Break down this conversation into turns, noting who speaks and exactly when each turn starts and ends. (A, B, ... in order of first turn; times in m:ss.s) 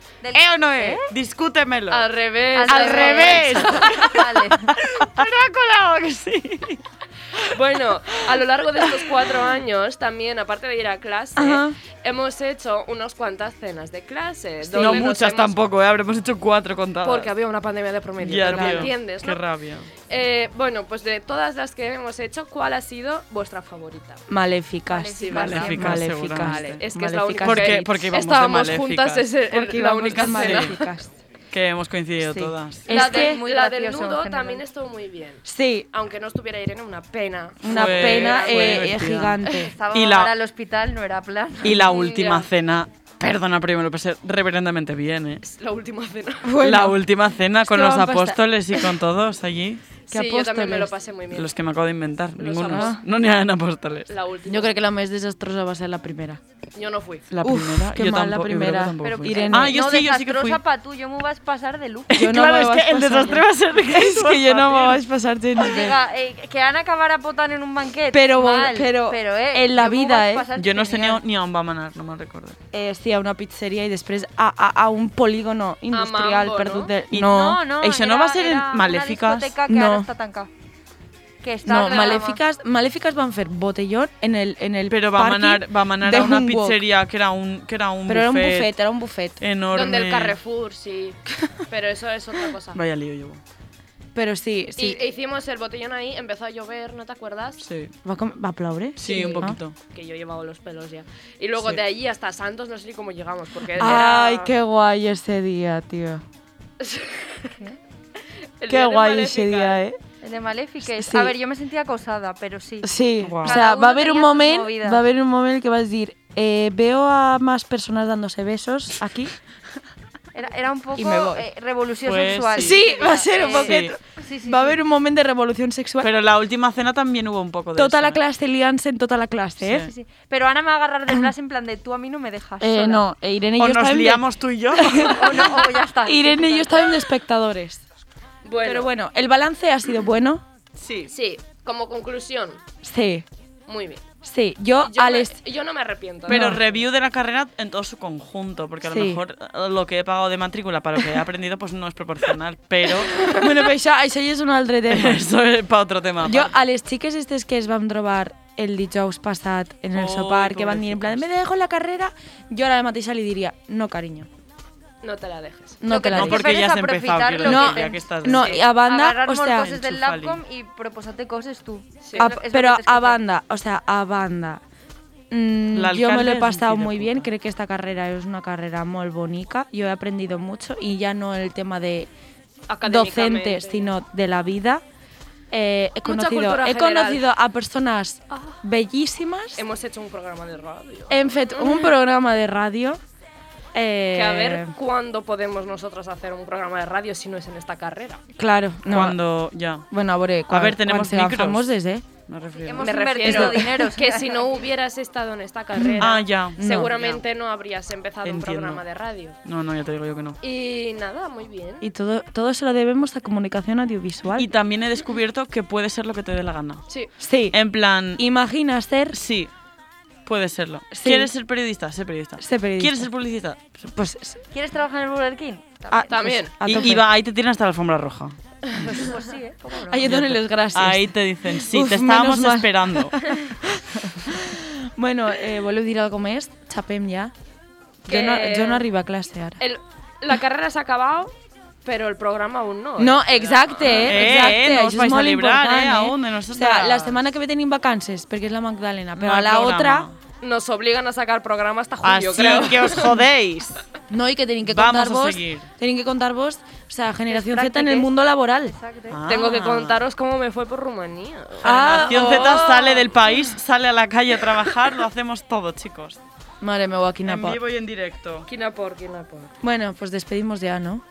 0:00.2-0:01.1 A
0:00.3-0:02.0 B
0:01.9-0:04.0 C
0:02.5-0:04.8 A
0:02.7-0:06.8 B
0:07.5-0:15.6 C
0:11.4-0:11.8 D
0:14.7-0:17.3 B
0:14.7-0:15.0 D
0:17.0-0:19.4 C
0:18.2-0:19.9 B
0:18.4-0:18.9 D
0:20.1-0:24.2 C
0:24.3-0:28.0 D
0:24.9-0:25.9 A
0:25.1-0:30.8 C
0:25.3-0:26.8 B
0:27.4-0:29.3 B
0:29.5-0:31.2 D
0:30.0-0:30.8 B
0:31.5-0:32.9 B
0:32.2-0:33.4 D
0:32.9-0:39.1 C
0:32.9-0:34.6 A
0:35.4-0:35.9 D
0:37.6-0:39.7 D
0:37.6-0:40.3 B
0:39.4-0:42.0 A
0:41.6-0:45.4 B
0:41.7-0:42.5 C
0:45.4-0:46.6 C
0:46.4-0:47.0 D
0:46.6-0:49.9 B
0:47.6-0:48.4 D
0:50.1-0:51.5 C
0:50.1-0:50.9 D
0:51.3-0:54.1 B
0:52.4-0:53.0 C
0:52.7-0:53.0 D
0:54.1-0:54.7 C
0:54.5-0:56.4 D
0:56.7-0:57.2 C
0:57.3-1:00.6 B
0:57.4-0:59.8 D
0:59.0-1:02.2 A
1:02.1-1:05.0 B
1:02.1-1:06.0 D
1:05.6-1:11.2 A
1:08.1-1:10.5 D
1:10.5-1:12.6 B
1:12.7-1:17.6 D
1:15.9-1:16.9 C
1:17.1-1:19.6 B
1:17.2-1:20.5 A
1:19.7-1:20.1 D
1:21.4-1:22.4 A
1:21.6-1:26.8 D
1:24.9-1:28.7 B
1:28.1-1:29.4 D
1:29.4-1:30.4 B
1:29.7-1:32.8 C
1:32.7-1:33.4 B
1:34.1-1:35.0 D
1:34.8-1:37.6 C
1:37.6-1:37.9 B
1:38.0-1:39.6 D
1:39.0-1:39.8 B
1:39.0-1:44.5 C
1:43.7-1:46.2 D
1:46.8-1:47.6 C
1:48.6-1:49.8 C
1:48.7-1:50.0 D
1:50.2-1:55.0 A
1:50.8-1:51.3 D
1:52.8-1:59.3 D
1:53.2-1:53.6 B
2:00.3-2:04.8 A
2:01.0-2:01.4 D
2:02.0-2:02.8 B
2:02.6-2:06.1 D
2:03.4-2:04.0 B
2:06.0-2:08.2 B
2:07.7-2:09.9 D
2:09.6-2:09.9 B
2:09.7-2:13.0 A
2:12.6-2:17.8 D
2:13.6-2:15.6 B
2:14.9-2:17.0 A
2:18.4-2:18.9 C
2:18.6-2:20.4 D
2:20.8-2:21.1 B
2:21.1-2:22.6 C
2:22.8-2:23.2 D
2:23.7-2:24.0 C
2:24.2-2:25.3 D
2:24.8-2:26.8 C
2:26.3-2:26.6 D
2:26.3-2:33.4 B
2:28.8-2:29.2 D
2:33.2-2:35.3 D
2:34.9-2:36.5 B
2:36.2-2:44.3 D
2:39.9-2:41.2 B
2:45.0-2:45.8 C
2:45.8-2:46.6 D
2:45.9-2:53.2 A
2:46.1-2:48.6 B
2:47.4-2:49.7 D
2:48.3-2:48.6 C
2:49.5-2:50.4 B
2:52.0-2:52.3 C
2:52.2-2:54.6 D
2:55.3-3:02.1 D
2:55.7-2:57.3 B
3:02.7-3:03.9 C
3:02.8-3:04.8 D
3:05.5-3:09.6 D
3:06.0-3:07.2 C
3:09.6-3:11.9 C
3:11.1-3:13.0 D
3:13.7-3:14.7 D
3:14.1-3:18.2 C
3:18.4-3:19.2 D
3:18.8-3:19.9 B
3:19.9-3:22.0 D
3:20.5-3:21.7 B
3:22.2-3:23.4 B
3:22.6-3:24.7 A
3:22.8-3:29.4 C
3:23.2-3:23.6 D
3:25.8-3:26.9 D
3:26.0-3:27.2 B
3:28.2-3:28.8 B
3:29.4-3:30.4 B
3:30.4-3:31.9 C
3:31.8-3:34.5 D
3:34.4-3:36.8 B
3:37.2-3:37.6 D
3:37.5-3:38.2 B
3:38.2-3:39.2 D
3:39.1-3:39.5 B
3:40.2-3:43.9 B
3:40.9-3:41.3 D
3:42.4-3:43.1 D
3:43.9-3:44.4 D
3:44.5-3:46.1 A
3:45.9-3:47.0 D
3:46.1-3:46.9 C
3:46.6-3:49.0 B
3:48.8-3:50.1 A
3:49.8-3:57.3 D
3:50.0-3:53.1 B
3:58.0-3:59.6 D
3:58.1-3:58.8 C
3:59.6-4:01.3 C
4:01.8-4:04.2 C
4:03.0-4:10.1 D
4:03.9-4:07.3 B
4:09.2-4:10.2 B
4:10.4-4:13.2 C
4:12.0-4:13.8 B
4:14.1-4:18.7 D
4:14.6-4:15.7 B
4:17.3-4:18.1 A
4:18.6-4:19.2 A
4:19.1-4:20.0 B
4:19.3-4:23.2 C
4:21.6-4:22.7 D
4:21.6-4:26.2 B
4:26.6-4:27.6 D
4:27.2-4:28.5 B
4:28.5-4:29.5 C
4:29.6-4:31.0 D